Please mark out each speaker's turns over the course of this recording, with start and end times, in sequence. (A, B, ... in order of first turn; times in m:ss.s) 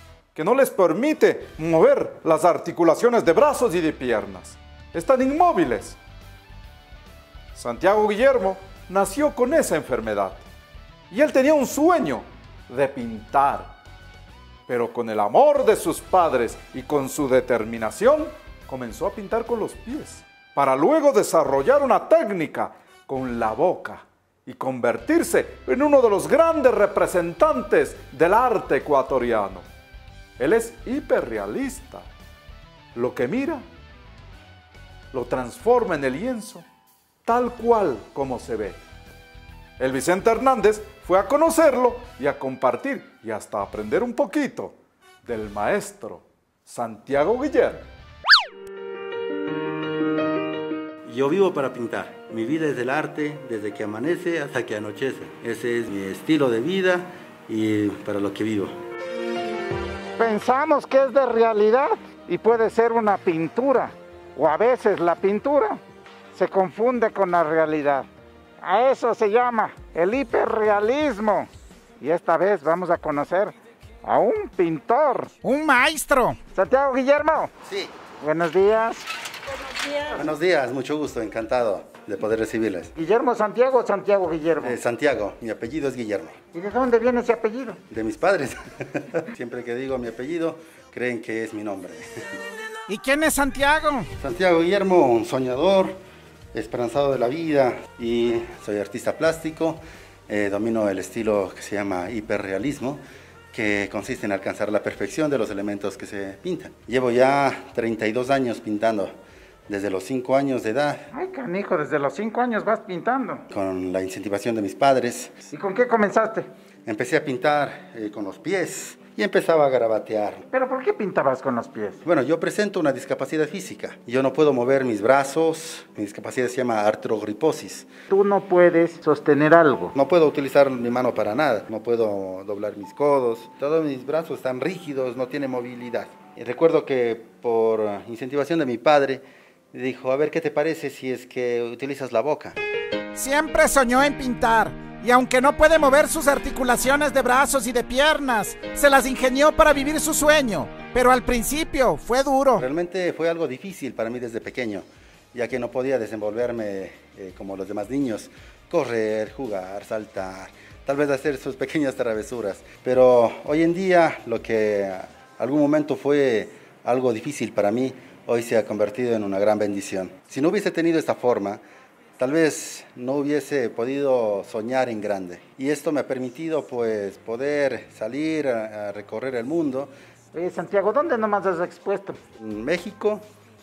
0:00.3-0:06.0 A
0:07.5-0:10.4 A
0:11.1-0:13.7 A
0:14.7-0:29.7 A
0:30.4-0:32.1 A
0:32.9-0:33.6 A
0:35.1-0:36.6 A
0:37.2-0:38.8 A
0:39.8-0:47.8 A
0:51.0-0:58.8 B
1:00.2-1:05.8 C
1:06.3-1:08.1 C
1:08.6-1:15.4 C
1:15.4-1:16.4 D
1:16.5-1:17.5 C
1:17.6-1:17.9 B
1:18.2-1:19.0 C
1:20.1-1:22.9 B
1:22.9-1:24.8 C
1:24.6-1:26.4 B
1:26.5-1:27.8 C
1:27.9-1:32.1 B
1:32.9-1:34.1 D
1:34.2-1:36.0 B
1:36.5-1:49.1 B
1:49.7-1:51.1 B
1:51.1-1:53.4 C
1:53.5-1:55.4 B
1:55.5-1:56.5 C
1:56.8-2:00.4 B
2:00.5-2:02.0 C
2:02.0-2:07.9 B
2:08.1-2:09.9 C
2:09.9-2:22.6 B
2:23.1-2:32.6 D
2:32.6-2:51.6 B
2:52.2-2:59.9 B
3:00.3-3:02.2 C
3:02.4-3:03.2 B